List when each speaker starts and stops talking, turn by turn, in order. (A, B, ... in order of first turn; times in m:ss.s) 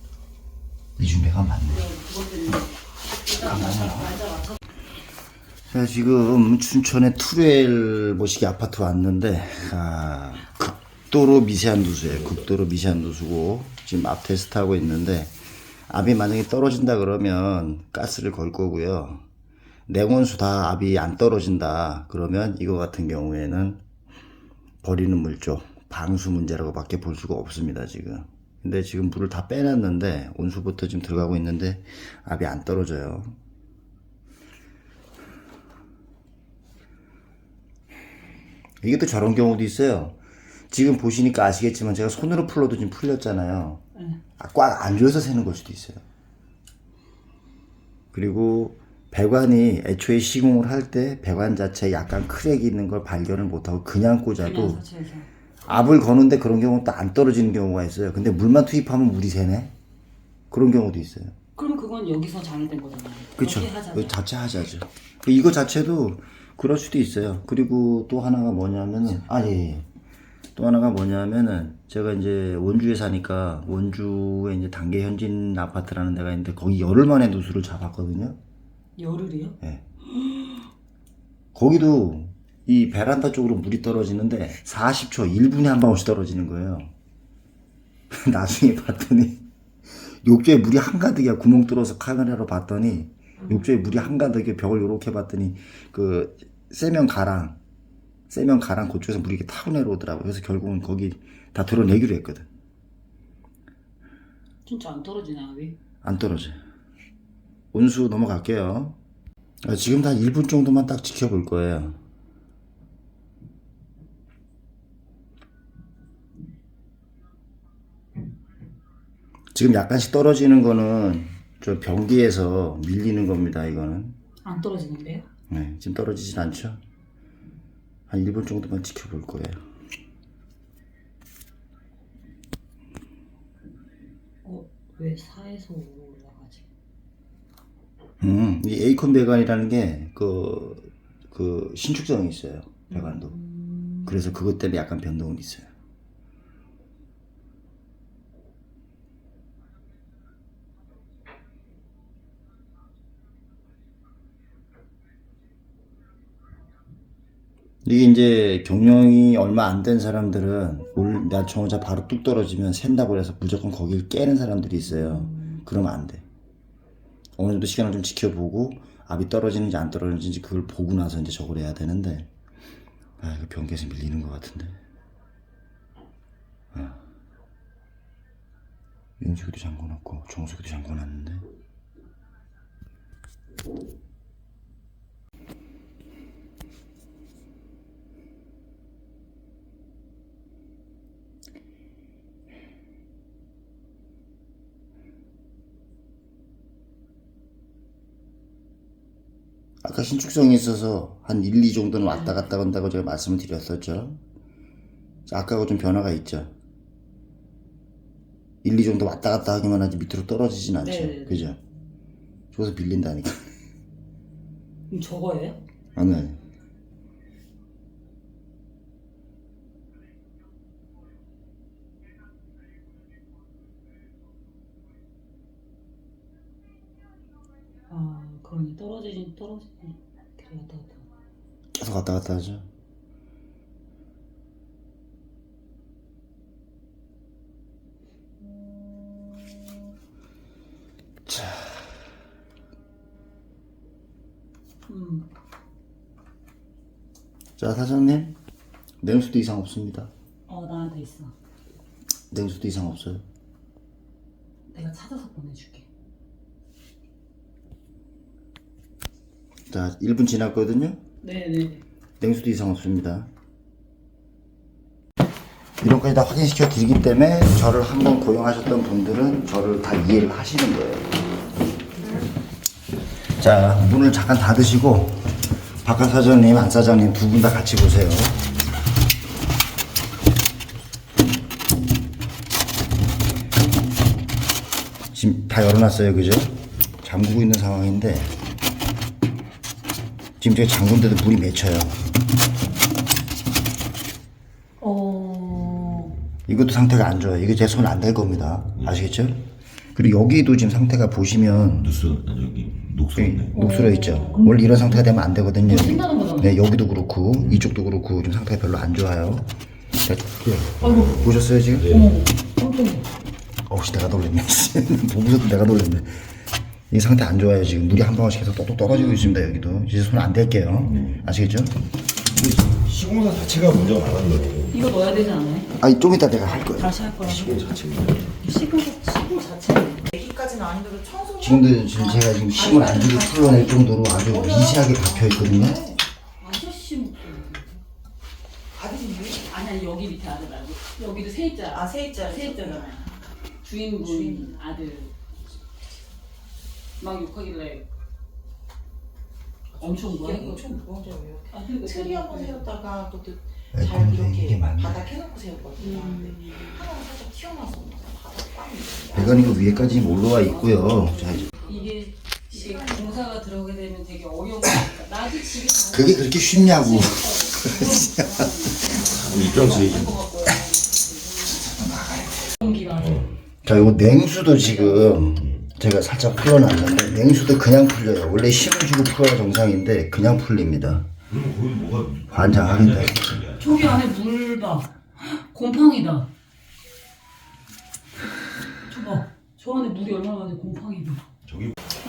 0:01.0-0:01.9 A
0:01.7-0:04.6 B
0:03.3-0:04.2 A
0:05.7-0:15.3 A
0:15.9-0:19.2 A
0:19.9-0:23.8 A
0:24.8-0:33.4 A
0:38.8-0:40.2 A
0:40.7-0:43.8 A
0:44.4-0:46.0 A
0:48.1-0:54.8 A
0:54.4-0:55.3 B
0:55.6-0:59.7 A
1:00.5-1:01.3 A
1:01.6-1:04.1 B
1:03.4-1:09.8 A
1:10.6-1:18.4 A
1:19.0-1:19.6 B
1:20.2-1:20.6 B
1:21.5-1:26.9 A
1:28.1-1:29.4 A
1:30.2-1:37.6 A
1:38.3-1:42.5 A
1:44.7-1:45.8 B
1:46.0-1:46.6 A
1:47.7-1:49.0 A
1:49.6-1:52.0 A
1:59.5-2:04.2 A
2:04.4-2:05.3 B
2:05.5-2:06.8 A
2:08.1-2:09.6 A
2:14.4-2:16.6 B
2:18.2-2:23.3 A
2:22.9-2:24.3 B
2:24.0-2:25.7 A
2:37.8-2:46.2 A
2:44.9-2:45.6 B
2:47.4-2:52.3 A
2:53.2-2:54.8 A
2:56.7-2:57.0 A
2:59.2-3:01.4 A
3:19.8-3:24.2 A
3:22.1-3:22.5 B
3:25.3-3:26.5 A
3:28.6-3:31.6 A
3:30.8-3:31.4 B
3:32.5-3:33.5 A
3:34.9-3:35.6 B
3:36.0-3:36.4 A
3:47.9-3:51.0 B
3:51.8-3:52.7 A
4:01.2-4:01.9 A
4:04.9-4:05.2 B
4:07.6-4:08.4 A
4:09.0-4:10.1 A
4:10.5-4:11.3 B
4:12.3-4:13.2 A
4:14.7-4:15.9 B
4:19.7-4:21.0 A
4:21.2-4:21.8 B
4:22.2-4:23.3 A
4:25.8-4:31.1 A
4:33.4-4:38.5 A
4:45.1-4:48.3 A
4:50.4-4:52.0 A
4:54.8-4:56.1 B
4:56.4-5:02.1 A
5:02.1-5:03.1 C
5:03.1-5:09.5 A
5:03.5-5:05.1 B
5:05.6-5:06.6 B
5:10.0-5:12.1 A
5:10.8-5:11.1 B
5:11.9-5:13.1 B
5:13.7-5:16.3 A
5:16.9-5:21.8 A
5:22.4-5:24.8 C
5:24.7-5:25.7 B
5:25.8-5:26.9 A
5:26.4-5:27.8 B
5:27.3-5:28.2 C
5:28.4-5:30.1 B
5:30.1-5:36.0 D
5:31.4-5:35.8 A
5:36.4-5:37.8 B
5:38.8-5:39.4 D
5:39.5-5:43.1 B
5:41.7-5:43.1 D
5:43.6-5:45.1 B
5:44.0-5:44.6 D
5:47.0-5:47.9 B
5:49.8-5:50.6 B
5:49.8-6:00.0 D
5:51.5-5:52.7 B
5:53.7-5:55.1 A
5:55.8-5:56.8 B
5:59.1-6:01.5 A
5:59.4-6:11.6 B
6:01.1-6:01.9 D
6:02.5-6:03.3 D
6:05.9-6:08.7 A
6:09.1-6:10.2 C
6:11.8-6:12.4 A
6:12.6-6:13.3 B
6:13.6-6:21.1 A
6:14.6-6:15.2 B
6:21.3-6:23.6 C
6:22.3-6:23.4 A
6:23.6-6:26.3 B
6:28.9-6:31.2 B